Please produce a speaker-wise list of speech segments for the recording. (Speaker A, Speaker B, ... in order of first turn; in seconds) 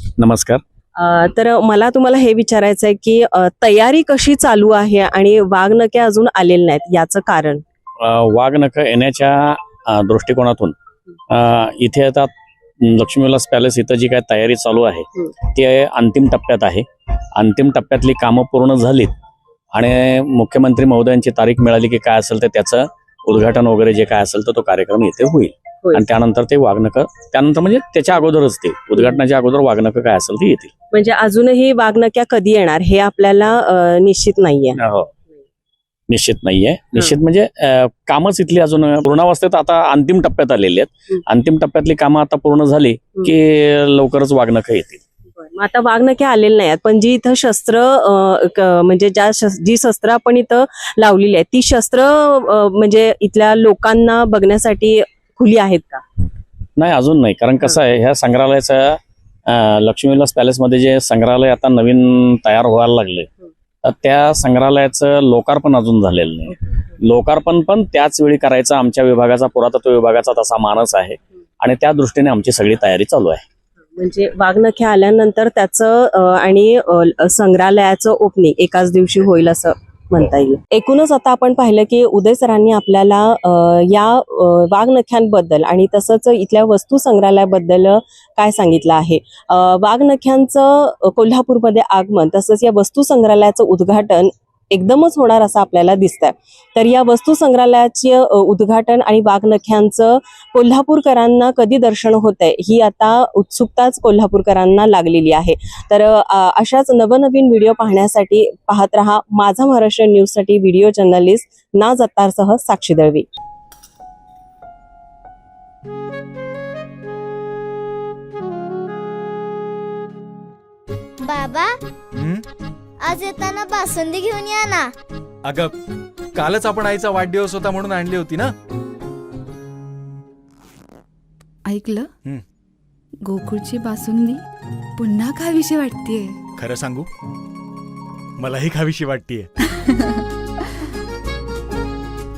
Speaker A: 0.2-0.6, 8.0-10.8, 11.3-19.1, 19.7-30.7, 34.8-35.1, 36.1-45.0, 56.8-63.3, 63.8-73.4
Speaker B: 1.0-7.6, 30.9-34.8, 45.4-56.0, 74.0-113.3
Speaker C: 121.2-121.7, 123.0-124.9
Speaker D: 122.2-122.5, 125.5-125.8, 126.3-128.5, 136.6-137.1, 138.4-139.5
Speaker E: 131.7-132.1, 133.2-134.4, 135.0-136.4